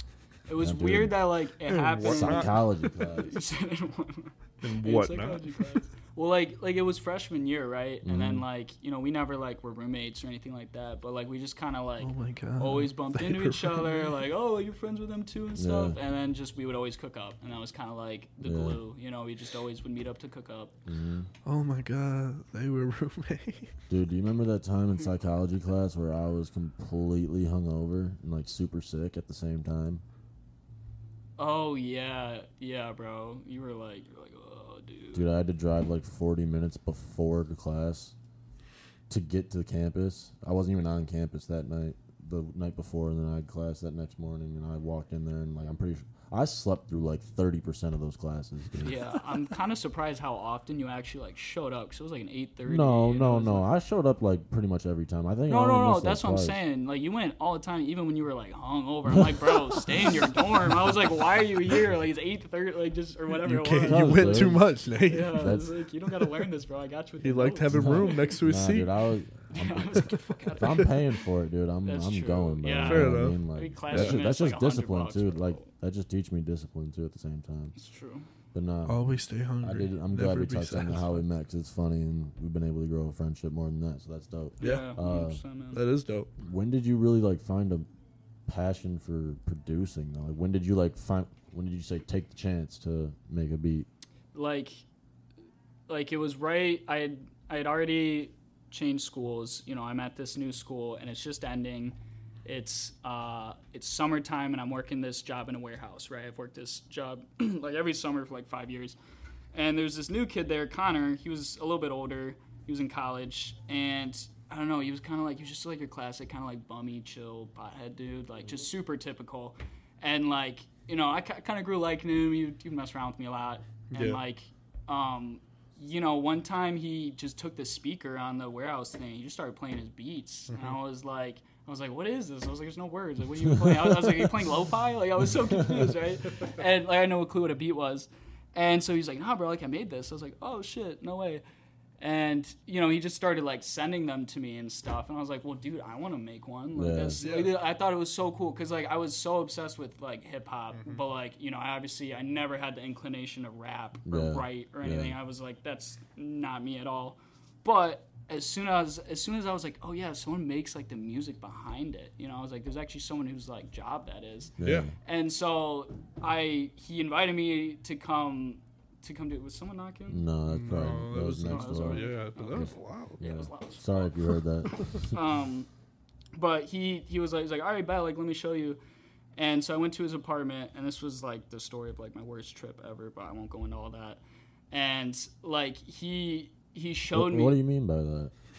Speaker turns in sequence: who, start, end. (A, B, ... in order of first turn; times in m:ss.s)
0:00.5-0:20.7 A
0:00.6-0:01.2 B
0:01.7-0:02.6 C
0:02.0-0:03.4 B
0:04.6-0:05.6 C
0:08.0-0:08.5 B
0:12.0-0:14.1 C
0:15.6-0:16.0 B
0:18.4-0:18.8 B
0:20.9-0:21.3 B
0:21.4-0:23.7 C
0:23.9-0:30.0 B
0:31.4-0:35.3 A
0:35.1-0:38.2 B
0:39.1-0:49.0 B
0:48.8-0:53.7 A
0:52.6-0:56.6 B
0:55.5-1:08.3 A
1:03.4-1:05.5 C
1:03.8-1:04.7 B
1:05.3-1:05.7 B
1:07.2-1:08.9 C
1:07.7-1:17.7 B
1:09.5-1:11.0 A
1:11.8-1:15.7 A
1:12.7-1:14.2 C
1:17.8-1:18.3 A
1:18.5-1:19.0 B
1:18.9-1:21.2 C
1:19.6-1:25.4 B
1:24.6-1:24.9 C
1:24.6-1:25.8 A
1:25.7-1:26.3 C
1:26.4-1:27.9 B
1:28.5-1:33.9 B
1:34.3-1:34.8 A
1:35.9-1:49.0 A
1:49.5-2:21.4 A
2:03.9-2:04.2 C
2:10.5-2:10.8 C
2:13.5-2:14.3 B
2:15.5-2:15.9 B
2:22.0-2:50.2 A
2:26.8-2:27.2 B
2:27.2-2:27.6 C
2:34.1-2:35.2 B
2:44.6-2:44.9 B
2:44.6-2:44.9 C
2:50.1-2:55.1 B
2:50.5-2:53.2 C
2:51.4-2:54.2 A
2:55.0-2:55.7 A
2:56.3-2:58.8 A
2:59.4-3:07.6 A
3:07.1-3:08.3 B